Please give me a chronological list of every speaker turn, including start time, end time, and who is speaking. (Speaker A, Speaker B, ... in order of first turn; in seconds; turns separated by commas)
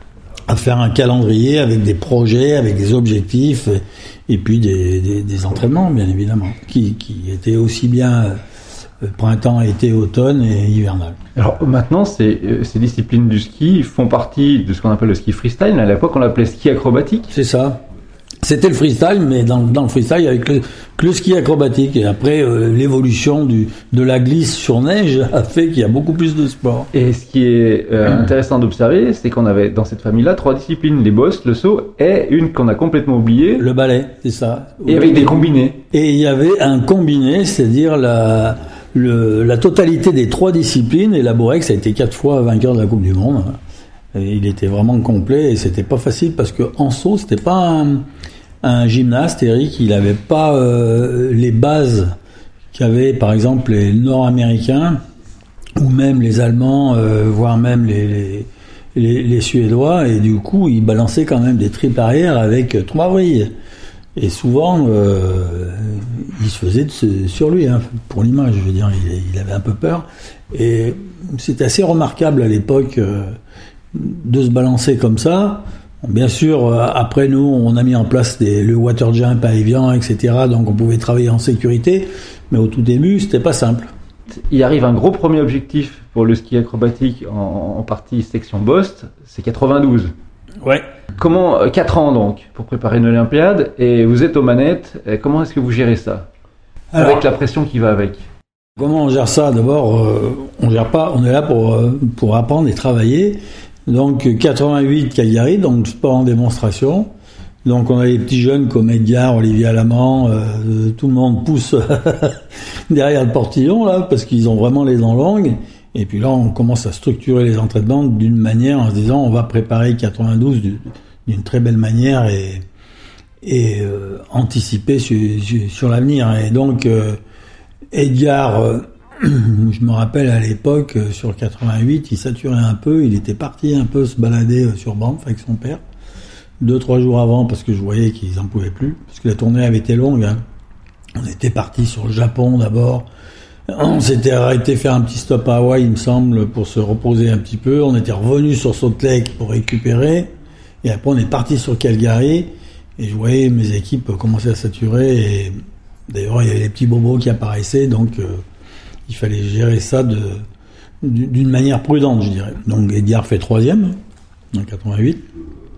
Speaker A: 0.5-8.4, Speaker A: 9.0-11.2, Speaker B: 11.4-17.3, Speaker A: 17.3-17.8, Speaker A: 18.4-26.9, Speaker B: 26.9-33.7, Speaker A: 33.6-43.6, Speaker B: 34.9-35.8, Speaker A: 44.1-48.1, Speaker A: 48.6-52.1, Speaker A: 52.7-55.0, Speaker A: 55.8-63.5, Speaker A: 64.2-73.4, Speaker A: 73.9-83.9, Speaker B: 84.3-90.1, Speaker B: 91.2-96.3, Speaker A: 96.9-97.2, Speaker B: 97.0-98.2, Speaker A: 98.8-107.1, Speaker A: 107.7-122.6, Speaker A: 123.4-127.2, Speaker A: 127.9-135.8, Speaker A: 136.6-140.4, Speaker A: 141.2-143.1, Speaker A: 143.7-150.3, Speaker A: 150.8-155.5, Speaker A: 156.1-158.4, Speaker A: 159.1-160.4, Speaker A: 161.0-163.9, Speaker A: 164.5-165.2